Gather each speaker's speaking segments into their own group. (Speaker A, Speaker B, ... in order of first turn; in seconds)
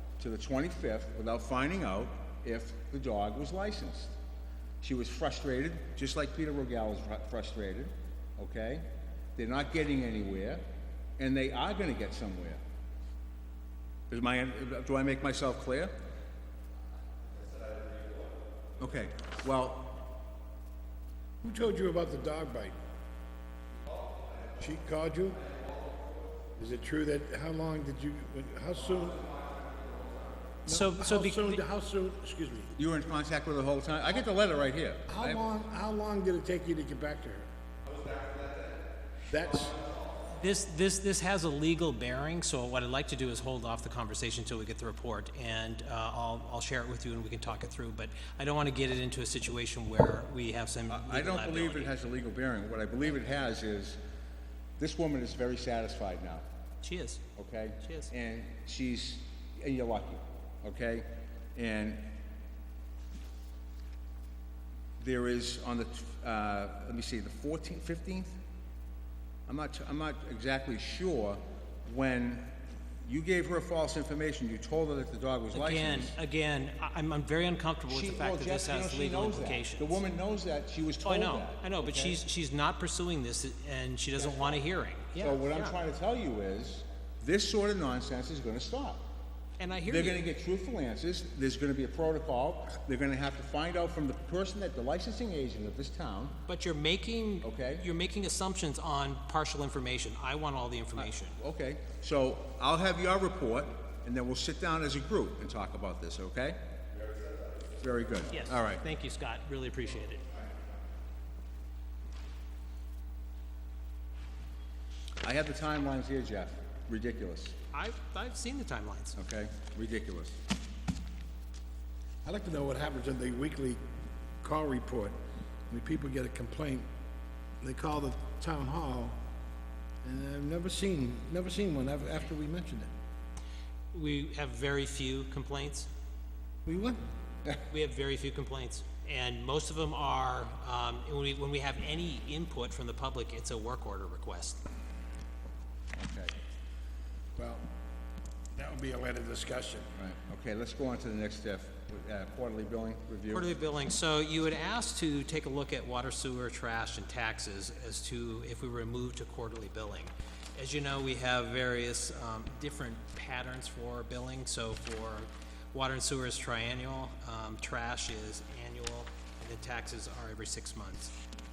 Speaker A: 0.2-4.2, 4.8-10.6, 11.2-12.6, 14.1-15.9, 18.8-20.0, 32.8-35.4, 50.9-54.0, 54.8-56.4, 57.4-62.1, 65.0-68.4, 69.5-76.1, 77.9-82.2, 85.2-89.0, 89.8-96.4, 97.4-97.8, 101.0-106.6, 107.8-108.8, 115.2-117.5, 119.1-120.4, 145.9-146.3, 149.9-153.5
Speaker B: 21.4-22.8, 24.6-25.4, 26.6-29.4, 30.6-32.7, 35.1-37.5, 39.3-39.8, 122.2-123.8, 124.4-125.2, 125.7-126.9, 127.6-129.2, 130.0-132.9, 136.7-137.0, 147.3-147.6, 148.6-149.9
Speaker C: 30.6-31.6, 40.3-51.9, 56.8-57.2, 57.8-58.1, 75.5-80.0, 81.0-85.7, 89.6-90.2, 96.5-101.4, 108.3-110.2, 117.7-119.2, 133.9-135.9, 137.7-144.6, 153.3-171.1